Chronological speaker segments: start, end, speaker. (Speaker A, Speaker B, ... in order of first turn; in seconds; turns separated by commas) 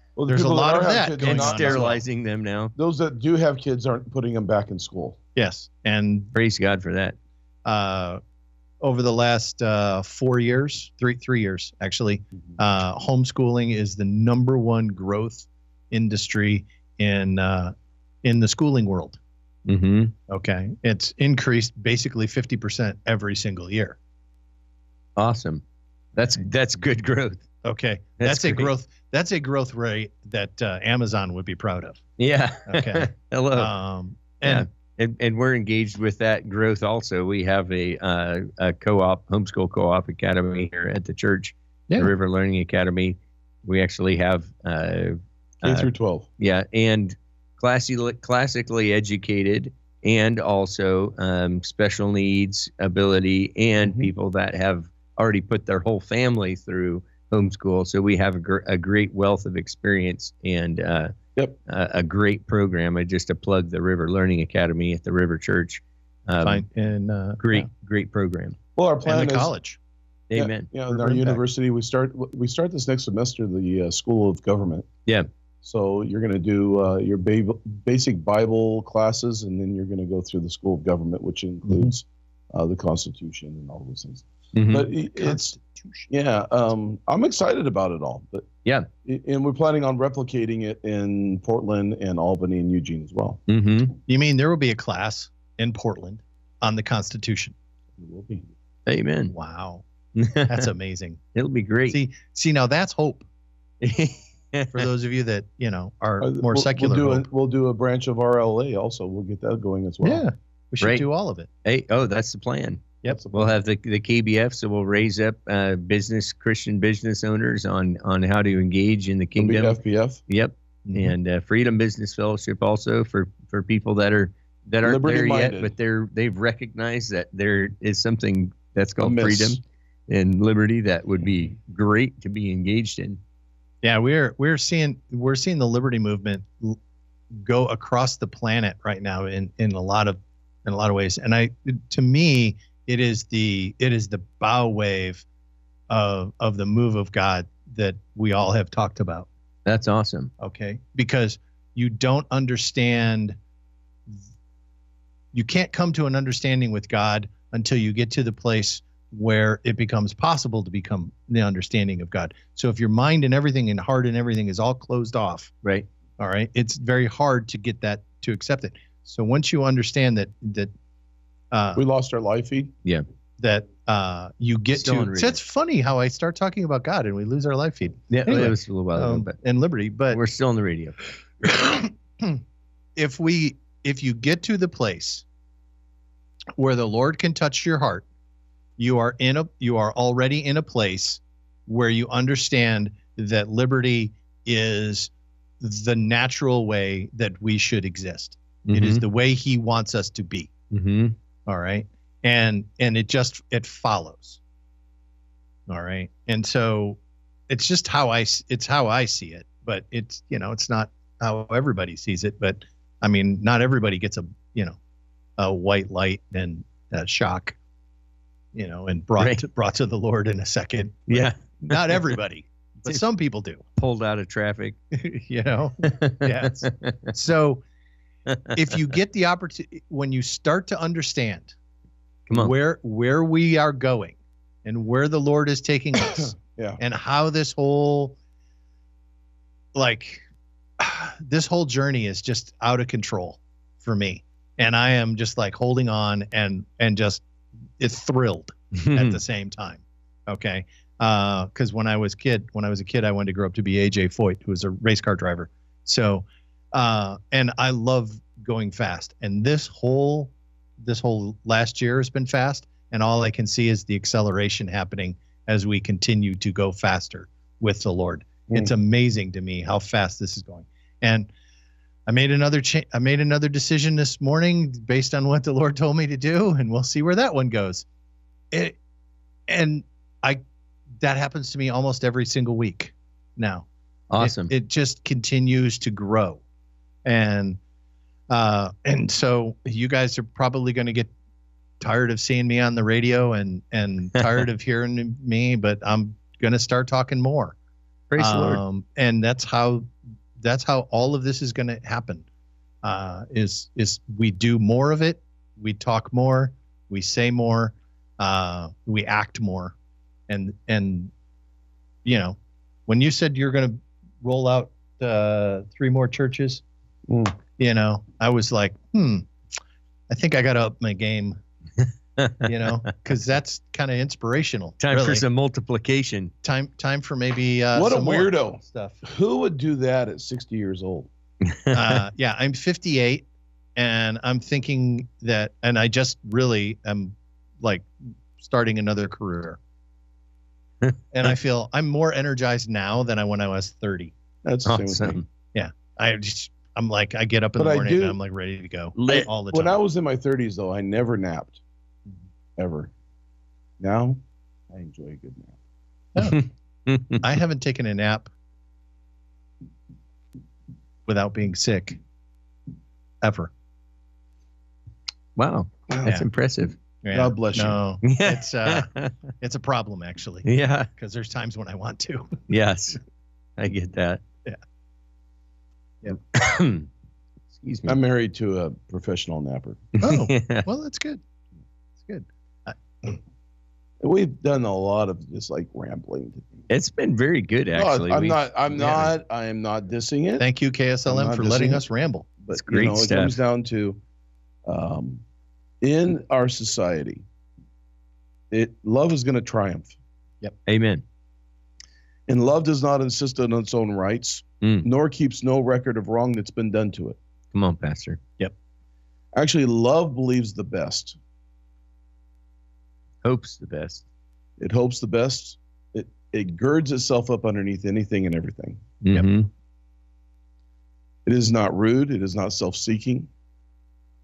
Speaker A: 0.2-2.0, Speaker B: 0.3-2.0, Speaker C: 1.2-2.7, Speaker A: 2.8-5.2, Speaker B: 5.4-6.3, Speaker C: 6.3-7.2, Speaker B: 7.7-8.2, Speaker B: 8.8-19.2, Speaker C: 19.7-20.1, Speaker B: 20.3-24.0, Speaker C: 25.2-25.6, Speaker C: 26.1-27.4, Speaker B: 27.6-32.0, Speaker C: 28.2-28.7, Speaker C: 32.2-33.7, Speaker B: 32.7-34.7, Speaker C: 34.4-61.1, Speaker A: 45.6-46.3, Speaker A: 53.8-54.1, Speaker C: 61.7-66.6, Speaker B: 66.4-67.7, Speaker C: 67.4-68.6, Speaker A: 68.8-69.5, Speaker B: 69.1-69.8, Speaker C: 70.3-70.7, Speaker A: 70.3-74.9, Speaker B: 70.9-71.4, Speaker A: 75.6-85.5, Speaker B: 81.7-81.9, Speaker C: 84.5-84.9, Speaker B: 85.1-86.1, Speaker A: 86.1-88.5, Speaker A: 89.0-93.4, Speaker C: 93.5-94.0, Speaker B: 94.1-97.5, Speaker A: 98.0-98.5, Speaker C: 98.9-99.3, Speaker B: 99.3-99.8, Speaker C: 100.2-100.7, Speaker B: 100.5-101.2, Speaker C: 101.3-102.0, Speaker B: 101.9-103.3, Speaker C: 103.8-104.9, Speaker B: 104.7-107.3, Speaker A: 106.2-110.2, Speaker B: 110.0-111.5, Speaker C: 111.6-133.2, Speaker A: 113.1-113.5, Speaker A: 119.4-120.2, Speaker B: 120.8-121.2, Speaker A: 124.8-125.8, Speaker A: 129.0-129.6, Speaker B: 133.8-136.8, Speaker B: 137.3-145.2, Speaker B: 145.9-149.3, Speaker C: 149.7-150.3, Speaker B: 150.4-153.4, Speaker B: 155.3-165.5, Speaker B: 166.2-170.7, Speaker B: 171.5-171.8, Speaker A: 171.8-172.7, Speaker B: 173.4-180.2, Speaker C: 174.7-175.4, Speaker C: 178.1-179.3, Speaker C: 180.1-181.0, Speaker B: 181.4-182.4, Speaker B: 183.0-185.2, Speaker B: 186.6-188.1, Speaker B: 188.8-200.5, Speaker C: 198.7-199.0, Speaker C: 200.7-201.2, Speaker B: 201.5-204.4, Speaker B: 205.7-214.8, Speaker B: 215.4-217.6, Speaker B: 218.5-223.6, Speaker C: 219.2-219.4, Speaker C: 221.1-222.0, Speaker C: 223.8-224.8, Speaker B: 224.9-227.6, Speaker C: 225.8-227.1, Speaker C: 228.3-228.6, Speaker B: 228.5-231.5, Speaker C: 232.3-232.5, Speaker B: 232.3-238.2, Speaker A: 236.4-236.8, Speaker B: 239.7-240.2, Speaker B: 240.8-247.2, Speaker B: 247.8-271.3, Speaker C: 248.7-249.2, Speaker B: 272.1-277.9, Speaker B: 278.5-278.8, Speaker B: 279.5-280.4, Speaker B: 281.0-283.7, Speaker C: 284.1-284.5, Speaker B: 284.2-286.4, Speaker B: 287.1-287.6, Speaker B: 288.3-291.1, Speaker B: 291.8-297.6, Speaker C: 298.1-298.6, Speaker B: 298.2-302.2, Speaker B: 302.8-309.8, Speaker B: 310.3-311.1, Speaker B: 312.1-316.6, Speaker A: 317.1-317.4, Speaker B: 317.6-319.3, Speaker B: 320.1-321.4, Speaker C: 322.2-322.9, Speaker B: 322.4-325.2, Speaker C: 324.8-326.3, Speaker B: 326.4-329.0, Speaker A: 327.7-331.1, Speaker C: 331.4-332.0, Speaker B: 331.7-339.6, Speaker B: 341.1-344.1, Speaker A: 344.4-345.2, Speaker C: 344.6-345.2, Speaker B: 345.5-349.8, Speaker A: 347.6-348.2, Speaker C: 349.0-349.3, Speaker A: 349.1-351.6, Speaker A: 352.6-352.9, Speaker A: 353.8-354.2, Speaker A: 354.7-355.6, Speaker B: 356.1-356.4, Speaker C: 356.2-357.2, Speaker B: 357.2-358.3, Speaker B: 361.1-362.0, Speaker B: 363.2-363.5, Speaker C: 365.4-366.8, Speaker B: 367.0-372.4, Speaker A: 367.1-367.8, Speaker C: 368.0-369.2, Speaker C: 370.4-370.9, Speaker C: 372.5-373.0, Speaker C: 373.6-374.2, Speaker C: 376.1-376.9, Speaker C: 377.5-378.0, Speaker A: 377.9-379.8, Speaker C: 380.0-380.7, Speaker B: 380.0-381.2, Speaker B: 382.0-383.2, Speaker A: 384.0-386.7, Speaker C: 386.7-388.4, Speaker A: 387.8-390.5, Speaker B: 388.7-389.1, Speaker B: 390.4-392.3, Speaker A: 391.1-391.8, Speaker A: 392.4-394.0, Speaker C: 392.5-393.4, Speaker A: 394.7-395.2, Speaker A: 395.8-397.2, Speaker A: 398.5-400.0, Speaker C: 400.7-401.0, Speaker A: 402.3-407.2, Speaker C: 404.6-404.9, Speaker C: 407.5-408.2, Speaker A: 409.3-411.2, Speaker C: 413.2-414.0, Speaker A: 414.6-418.8, Speaker C: 419.0-419.5, Speaker A: 421.3-423.3